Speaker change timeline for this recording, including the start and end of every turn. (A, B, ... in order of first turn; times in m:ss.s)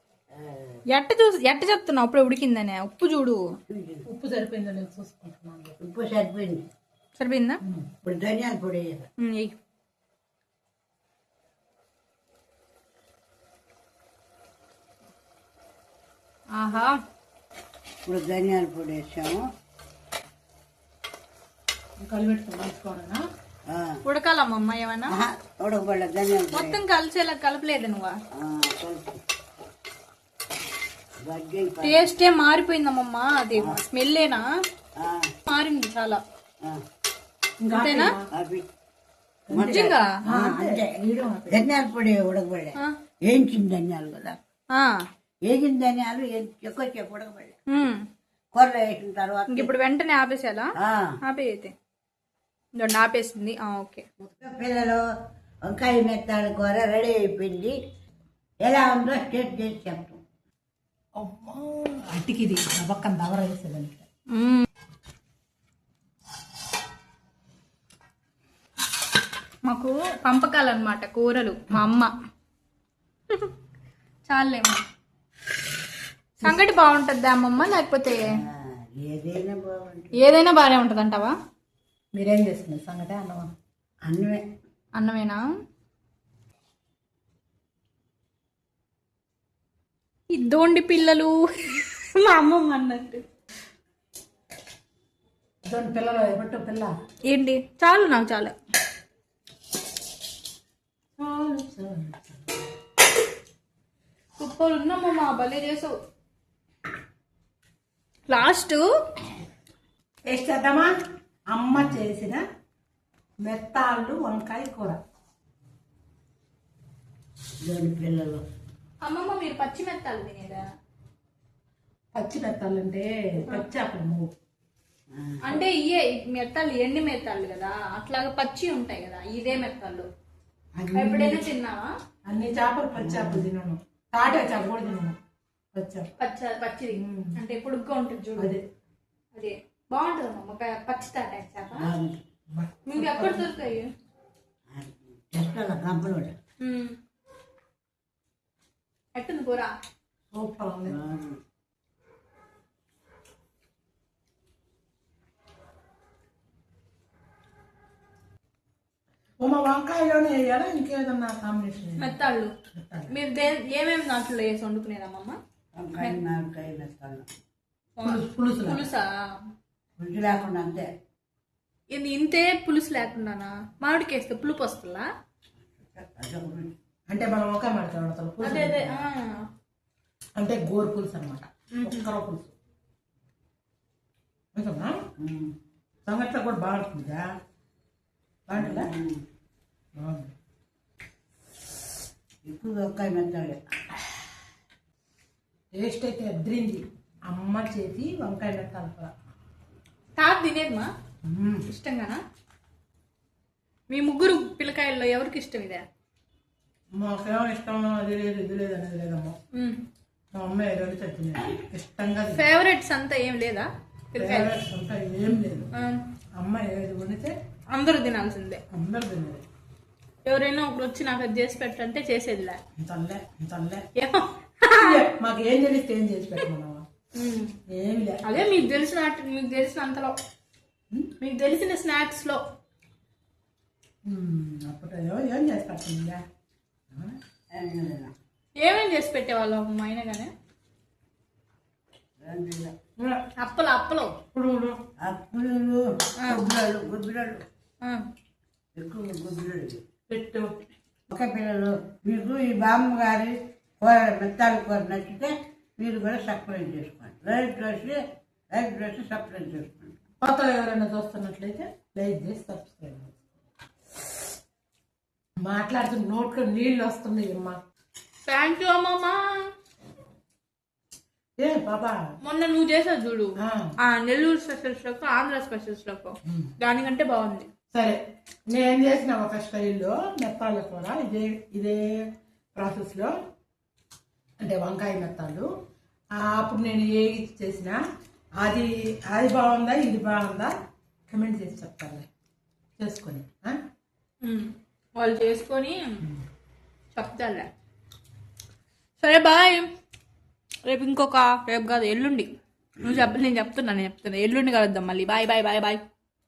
0:00.3-0:00.8 A
0:00.9-0:03.6 B
0:03.7-0:04.1 A
0:04.0-0:05.8 C
0:05.8-0:06.6 A
0:07.2-0:07.6 B
0:08.0-0:09.1 A
0:09.2-0:09.5 B
0:16.5-0:17.0 B
0:18.0-0:19.4 A
0:22.0-0:23.2 C
0:23.7-0:24.0 A
0:24.0-0:25.1 B
0:25.1-0:26.8 A
0:26.5-0:28.2 B
0:28.3-0:29.2 A
0:31.2-0:32.1 A
0:31.8-0:34.4 B
0:35.0-0:35.3 A
0:35.5-0:36.2 B
0:37.6-0:38.3 C
0:37.7-0:38.2 B
0:38.3-0:38.7 A
0:39.5-0:41.7 C
0:39.5-0:44.4 A
0:39.5-0:40.1 B
0:44.7-0:45.1 B
0:45.5-0:47.6 A
0:47.7-0:48.0 B
0:48.5-0:49.7 A
0:49.5-0:50.7 B
0:50.8-0:51.2 A
0:51.2-0:51.7 B
0:52.8-0:54.0 B
0:54.4-0:55.0 A
0:55.6-0:57.8 A
0:58.6-1:00.2 A
1:01.2-1:04.0 C
1:04.3-1:04.7 B
1:09.6-1:12.1 B
1:14.3-1:14.8 B
1:16.4-1:18.3 B
1:18.2-1:20.3 A
1:20.2-1:21.3 B
1:22.1-1:23.5 C
1:24.0-1:24.4 A
1:24.9-1:25.4 B
1:30.3-1:33.2 B
1:35.6-1:36.9 C
1:37.3-1:38.5 B
1:41.2-1:42.4 C
1:44.4-1:45.9 B
1:48.3-1:48.8 B
1:50.2-1:50.9 C
1:51.5-1:52.4 C
1:53.4-1:55.0 C
1:57.6-1:58.4 A
1:59.0-2:00.6 B
2:02.1-2:04.3 C
2:05.1-2:05.6 A
2:05.4-2:10.1 B
2:10.8-2:11.4 C
2:10.9-2:11.9 B
2:12.2-2:15.2 C
2:13.0-2:13.5 A
2:15.7-2:16.1 C
2:16.2-2:18.6 B
2:16.9-2:17.4 C
2:18.4-2:18.6 C
2:19.3-2:21.9 B
2:21.8-2:22.2 A
2:22.5-2:23.5 C
2:22.9-2:23.9 B
2:24.7-2:26.3 A
2:26.6-2:27.0 B
2:29.1-2:29.7 B
2:30.3-2:31.0 C
2:30.9-2:31.4 A
2:39.4-2:42.2 C
2:42.0-2:42.5 B
2:42.7-2:43.1 C
2:43.1-2:45.4 B
2:45.7-2:47.3 A
2:48.0-2:49.1 B
2:48.0-2:48.8 C
2:50.0-2:50.9 A
2:51.9-2:55.1 B
2:55.8-2:56.7 A
2:57.1-2:59.0 C
2:58.4-2:59.4 B
3:00.4-3:02.5 C
3:01.7-3:02.1 B
3:04.5-3:05.0 C
3:05.2-3:05.5 A
3:06.0-3:07.2 C
3:08.5-3:08.9 C
3:08.5-3:09.2 A
3:10.0-3:10.3 C
3:12.4-3:13.6 A
3:15.7-3:19.1 C
3:20.2-3:20.9 B
3:21.2-3:21.6 C
3:21.7-3:22.2 B
3:23.9-3:25.8 B
3:26.9-3:29.4 C
3:29.5-3:29.8 B
3:30.3-3:32.4 C
3:32.3-3:34.6 B
3:34.2-3:35.7 C
3:35.7-3:36.0 B
3:36.4-3:37.4 C
3:37.7-3:38.6 B
3:38.7-3:39.4 C
3:40.2-3:42.6 B
3:42.8-3:43.8 C
3:44.0-3:45.1 B
3:44.7-3:46.8 C
3:47.2-3:47.5 B
3:47.7-3:48.3 C
3:48.2-3:50.1 B
3:51.2-3:52.4 B
3:54.0-3:56.2 C
3:56.9-3:57.2 C
3:57.5-3:58.1 A
3:58.6-4:00.3 B
4:02.2-4:02.7 A
4:03.0-4:03.2 C
4:03.4-4:04.2 B
4:04.3-4:04.8 C
4:05.0-4:07.4 A
4:08.8-4:09.8 A
4:10.1-4:10.5 C
4:11.1-4:18.0 A
4:18.5-4:20.0 A
4:20.2-4:23.2 C
4:25.4-4:27.6 C
4:28.3-4:29.5 B
4:31.4-4:32.0 C
4:32.2-4:37.5 B
4:33.4-4:33.7 C
4:36.2-4:36.5 C
4:37.7-4:38.0 C
4:38.5-4:43.1 C
4:44.4-4:45.5 C
4:46.1-4:47.8 C
4:48.4-4:50.5 C
4:51.1-4:52.1 C
4:52.8-4:53.6 C
4:54.2-4:56.0 B
4:56.9-4:57.5 B
4:59.0-4:59.7 B
5:00.6-5:05.8 B